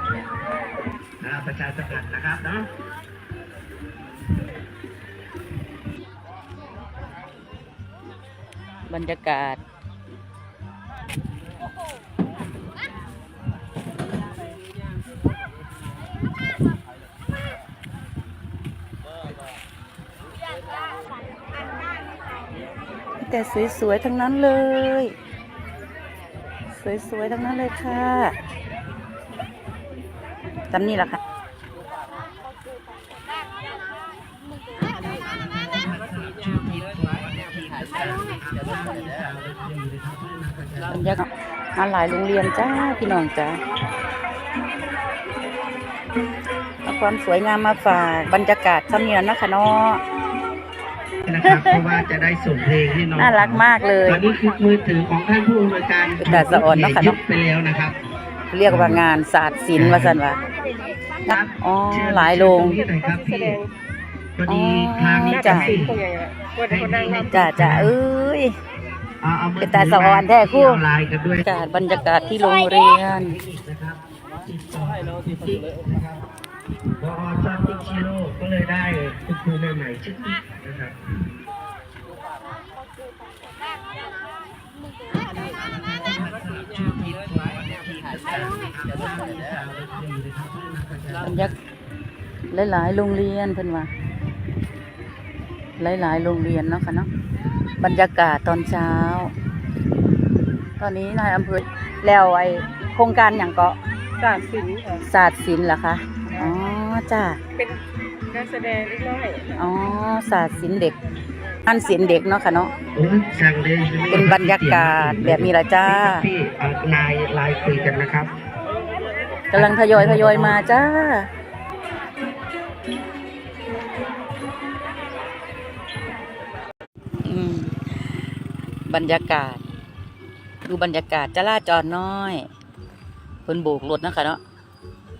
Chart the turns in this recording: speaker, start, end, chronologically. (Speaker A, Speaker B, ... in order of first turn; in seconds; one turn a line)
Speaker A: 1.2-2.6
Speaker B: 8.9-9.6
Speaker B: 23.2-25.1
Speaker B: 26.7-28.4
Speaker B: 30.7-31.2
Speaker A: 36.2-41.0
Speaker B: 40.9-43.6
Speaker B: 46.8-50.0
Speaker A: 51.2-58.0
Speaker B: 51.4-51.8
Speaker B: 53.2-54.2
Speaker C: 53.9-54.1
Speaker B: 56.2-57.2
Speaker B: 58.5-60.4
Speaker A: 58.7-59.0
Speaker A: 59.8-60.1
Speaker B: 61.2-62.8
Speaker A: 61.3-63.6
Speaker C: 62.8-63.7
Speaker A: 64.4-65.9
Speaker B: 64.5-65.7
Speaker C: 65.3-67.3
Speaker A: 66.7-67.9
Speaker B: 67.1-68.5
Speaker A: 69.2-71.4
Speaker B: 69.6-70.8
Speaker B: 71.4-73.3
Speaker A: 73.1-76.2
Speaker A: 77.0-81.0
Speaker A: 88.9-91.2
Speaker B: 91.2-91.5
Speaker B: 92.5-93.9
Speaker B: 95.8-97.1
Speaker B: 97.8-99.3
Speaker B: 100.8-103.8
Speaker C: 104.2-105.0
Speaker B: 105.0-107.4
Speaker C: 108.3-109.5
Speaker B: 109.5-111.0
Speaker B: 111.7-112.7
Speaker A: 112.9-118.3
Speaker B: 114.1-116.2
Speaker B: 119.5-121.3
Speaker A: 119.5-120.6
Speaker B: 127.2-127.7
Speaker B: 128.9-129.6
Speaker B: 130.7-132.5
Speaker B: 133.4-134.4